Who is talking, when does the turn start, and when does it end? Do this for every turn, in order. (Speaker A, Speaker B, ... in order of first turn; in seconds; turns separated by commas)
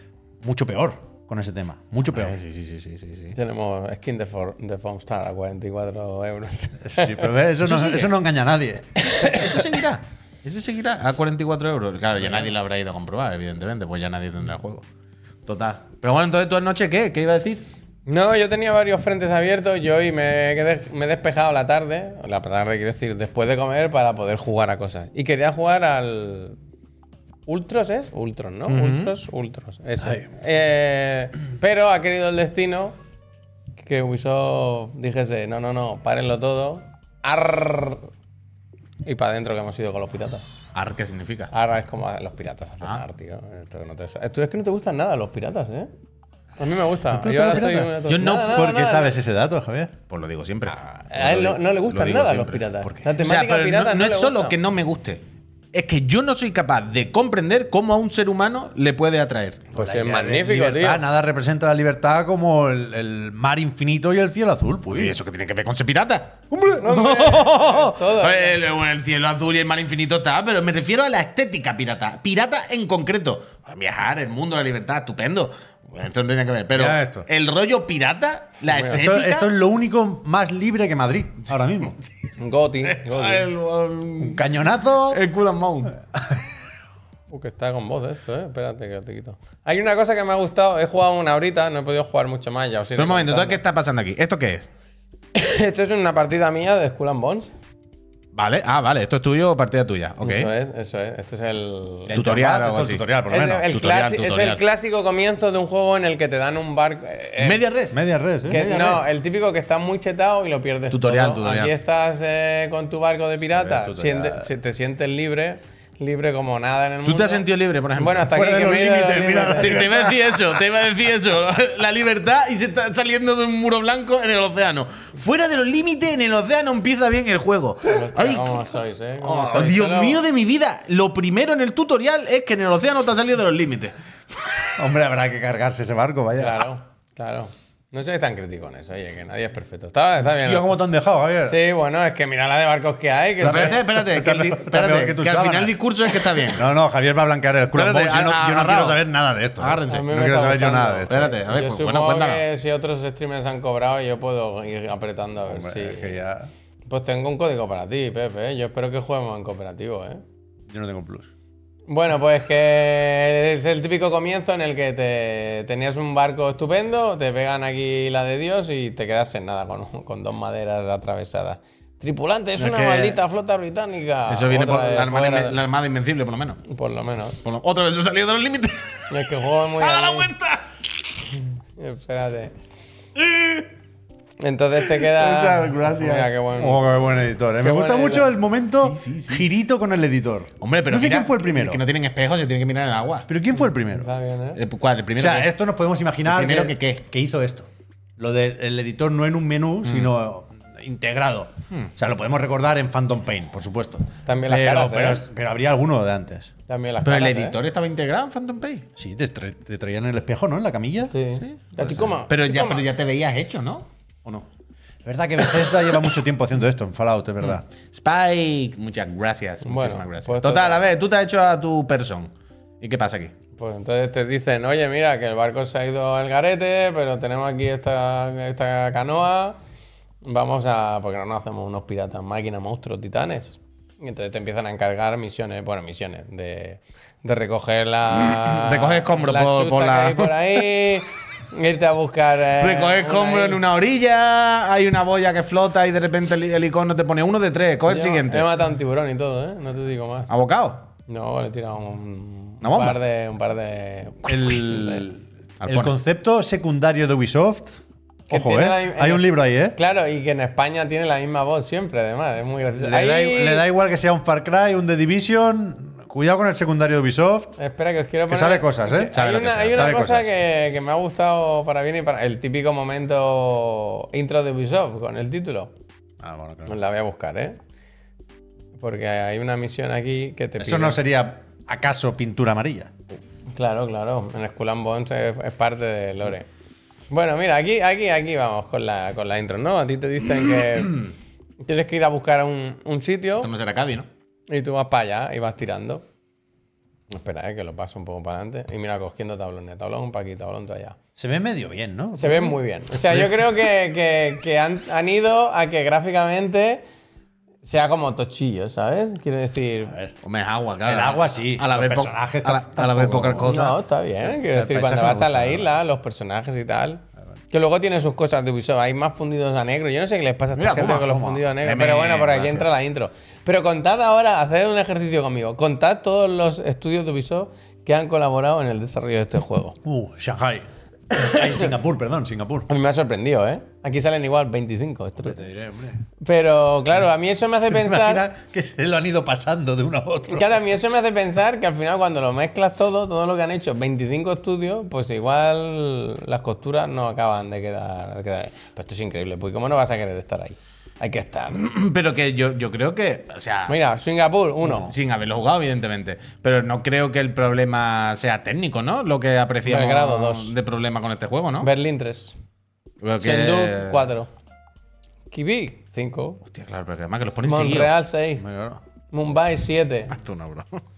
Speaker A: 0.4-2.4, Speaker B: 2.1-3.4, Speaker C: 3.3-7.3, Speaker A: 6.8-9.0, Speaker B: 7.6-8.1, Speaker C: 9.0-9.6, Speaker B: 9.2-14.8, Speaker B: 15.4-17.6, Speaker C: 18.1-26.6, Speaker C: 27.5-33.0, Speaker B: 28.7-29.1, Speaker A: 30.0-30.2, Speaker C: 33.8-38.1, Speaker C: 39.0-40.5, Speaker B: 40.7-41.5, Speaker C: 41.5-45.9, Speaker C: 46.6-49.1, Speaker A: 47.1-49.9, Speaker B: 48.1-48.5, Speaker B: 50.1-55.2, Speaker C: 50.7-54.5, Speaker B: 55.7-59.7, Speaker C: 59.7-61.0, Speaker A: 59.8-65.2, Speaker B: 64.9-79.5, Speaker A: 66.5-66.9, Speaker C: 66.8-68.6, Speaker A: 76.7-77.3, Speaker C: 78.7-79.0, Speaker A: 78.8-82.0, Speaker C: 82.4-83.5, Speaker B: 82.8-86.0, Speaker A: 84.2-85.2, Speaker C: 87.3-93.6, Speaker B: 93.0-94.7, Speaker C: 95.3-97.5, Speaker B: 98.3-100.5, Speaker C: 100.2-102.2, Speaker A: 102.0-103.7, Speaker B: 102.1-103.0, Speaker C: 103.3-107.6, Speaker B: 103.7-104.6, Speaker B: 107.4-108.0, Speaker A: 107.9-108.7, Speaker C: 108.5-119.8, Speaker B: 108.5-109.0, Speaker B: 110.9-111.7, Speaker A: 113.6-114.5, Speaker B: 117.0-118.3, Speaker A: 118.3-120.6, Speaker B: 119.1-134.7, Speaker C: 127.8-130.2, Speaker A: 134.8-136.7, Speaker C: 136.4-140.8, Speaker A: 140.2-141.6, Speaker C: 141.4-143.8, Speaker A: 143.4-145.8, Speaker B: 143.4-146.7, Speaker A: 146.4-151.3, Speaker B: 147.7-149.0, Speaker B: 149.6-150.1, Speaker C: 149.9-156.2, Speaker B: 151.1-152.4, Speaker A: 155.4-156.5, Speaker C: 156.9-160.2, Speaker A: 160.7-161.3, Speaker C: 161.9-175.6, Speaker B: 172.6-173.2, Speaker B: 174.3-176.6, Speaker C: 176.7-177.4, Speaker B: 177.4-179.1, Speaker C: 179.1-180.3, Speaker B: 179.7-180.8, Speaker C: 181.8-182.5, Speaker B: 183.2-183.7, Speaker C: 184.4-188.3, Speaker B: 184.8-186.3, Speaker A: 186.6-191.8, Speaker B: 188.8-189.4, Speaker B: 190.6-193.3, Speaker A: 193.3-194.1, Speaker C: 193.8-194.6, Speaker B: 194.5-195.5, Speaker A: 195.2-206.5, Speaker B: 196.2-197.0, Speaker B: 199.8-200.1, Speaker C: 204.2-205.2, Speaker C: 206.7-207.6, Speaker B: 207.0-208.8, Speaker A: 208.9-211.1, Speaker C: 211.1-212.8, Speaker B: 211.4-214.4, Speaker A: 215.0-217.6, Speaker B: 215.5-216.1, Speaker B: 217.9-223.3, Speaker C: 219.6-220.8, Speaker C: 223.6-229.6, Speaker C: 230.2-243.6, Speaker B: 238.1-240.7, Speaker B: 242.6-248.5, Speaker C: 247.9-250.3, Speaker B: 250.3-250.8, Speaker C: 251.1-255.0, Speaker B: 252.6-253.0, Speaker A: 254.2-257.7, Speaker B: 255.6-255.9, Speaker A: 258.3-259.8, Speaker C: 258.3-263.6, Speaker A: 262.8-267.6, Speaker C: 267.6-275.7, Speaker A: 268.3-269.2, Speaker B: 269.1-270.1, Speaker A: 269.7-270.3, Speaker A: 276.2-276.8, Speaker C: 276.6-277.6, Speaker C: 278.8-281.0, Speaker A: 280.6-282.9, Speaker C: 283.5-286.4, Speaker C: 287.1-291.1, Speaker C: 291.6-293.5, Speaker B: 293.4-294.1, Speaker C: 294.5-296.0, Speaker C: 297.1-301.0, Speaker A: 301.2-303.4, Speaker C: 302.1-306.8, Speaker C: 307.6-309.9, Speaker A: 309.9-310.1, Speaker B: 310.2-313.8, Speaker A: 310.8-313.5, Speaker C: 313.4-329.8, Speaker A: 314.2-315.7, Speaker B: 320.6-321.0, Speaker A: 320.6-321.4, Speaker B: 321.6-322.7, Speaker A: 329.8-332.7, Speaker C: 331.2-331.6, Speaker C: 332.7-335.4, Speaker A: 335.2-336.0, Speaker C: 336.2-338.2, Speaker A: 337.6-340.6, Speaker C: 340.3-351.6, Speaker B: 351.5-354.0, Speaker C: 353.7-354.9, Speaker B: 354.6-361.7, Speaker C: 359.6-360.5, Speaker C: 361.6-362.3, Speaker B: 363.0-364.1, Speaker C: 363.2-364.3, Speaker C: 365.3-366.4, Speaker B: 366.4-367.9, Speaker C: 367.4-368.4, Speaker A: 368.4-368.8, Speaker C: 369.1-370.1, Speaker B: 370.1-370.8